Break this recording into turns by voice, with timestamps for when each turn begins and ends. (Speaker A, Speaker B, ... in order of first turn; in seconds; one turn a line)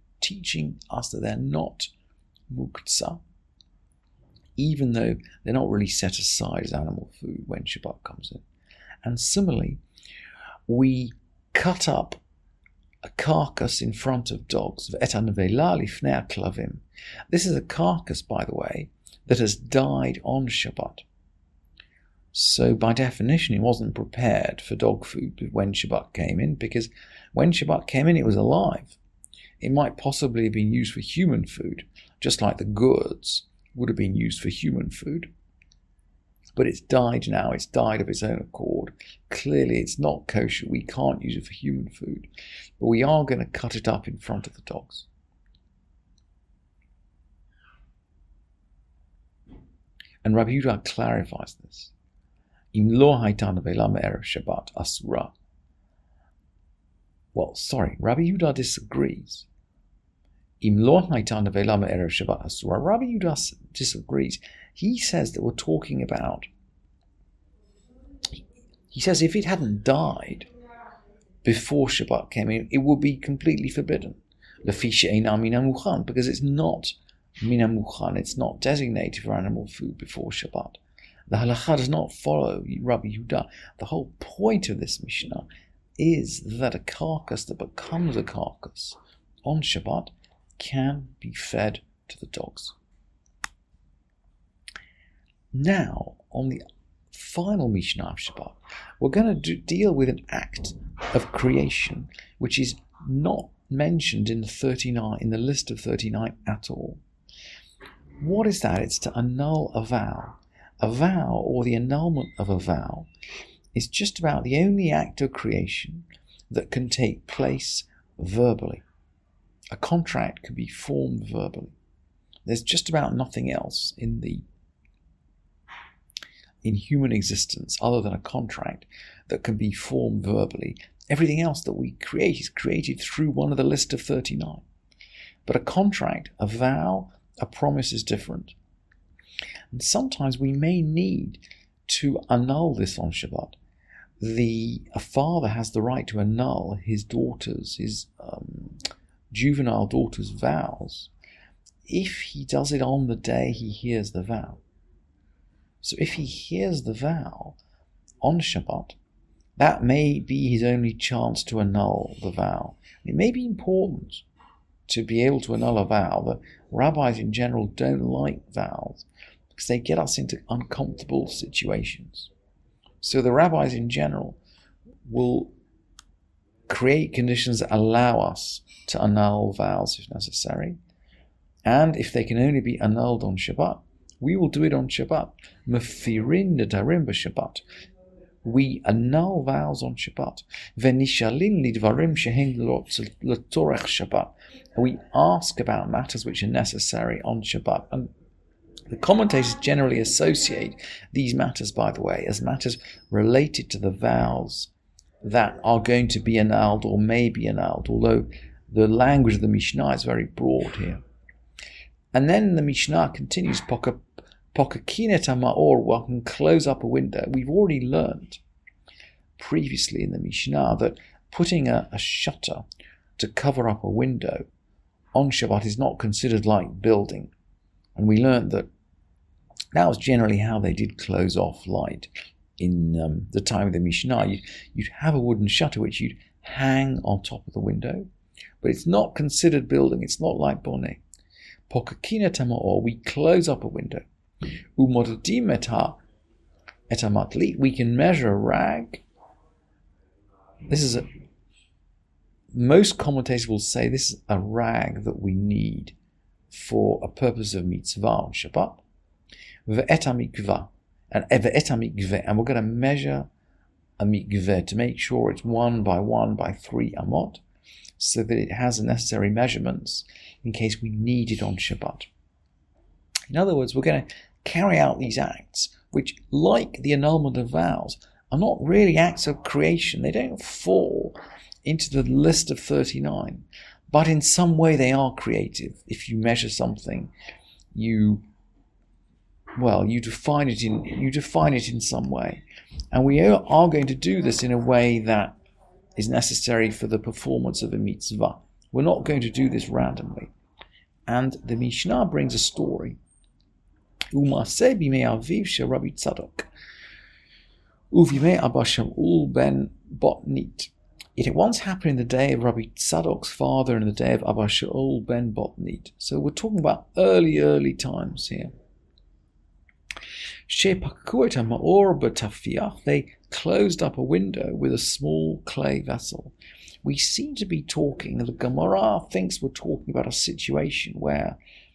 Speaker A: 0.2-1.9
Speaker A: 2.5-3.2
Speaker A: 4.6-8.4
Speaker A: 9.0-9.8
Speaker A: 10.7-12.2
Speaker A: 13.0-21.1
Speaker A: 22.3-29.0
Speaker A: 29.6-35.3
Speaker A: 36.6-45.1
Speaker A: 50.2-51.9
Speaker A: 52.7-55.3
Speaker A: 57.3-59.5
Speaker A: 60.6-66.5
Speaker A: 68.9-70.5
Speaker A: 71.4-85.5
Speaker A: 86.0-92.8
Speaker A: 95.5-107.0
Speaker A: 108.2-113.1
Speaker A: 113.7-118.8
Speaker A: 119.7-121.8
Speaker A: 122.4-124.4
Speaker A: 126.6-134.6
Speaker A: 135.4-138.6
Speaker A: 139.7-143.6
Speaker A: 144.2-151.1
Speaker A: 151.9-154.6
Speaker A: 155.8-157.6
Speaker A: 158.2-158.9
Speaker A: 159.6-164.2
Speaker A: 164.9-172.3
Speaker A: 173.0-174.4
Speaker A: 175.1-175.5
Speaker A: 176.7-180.8
Speaker A: 181.6-187.6
Speaker A: 188.4-198.1
Speaker A: 198.9-204.7
Speaker A: 205.2-211.0
Speaker A: 212.1-218.4
Speaker A: 219.4-222.6
Speaker A: 223.2-224.5
Speaker A: 225.1-227.3
Speaker A: 227.9-228.7
Speaker A: 229.7-238.1
Speaker A: 238.6-241.0
Speaker A: 241.7-244.1
Speaker A: 244.8-246.0
Speaker A: 246.9-249.0
Speaker A: 250.7-251.1
Speaker A: 252.5-255.9
Speaker A: 256.5-258.9
Speaker A: 259.6-263.3
Speaker A: 264.0-267.4
Speaker A: 268.0-272.1
Speaker A: 273.3-287.1
Speaker A: 287.7-288.2
Speaker A: 289.6-295.4
Speaker A: 296.0-300.3
Speaker A: 301.1-303.0
Speaker A: 304.1-306.5
Speaker A: 307.9-318.5
Speaker A: 320.5-331.4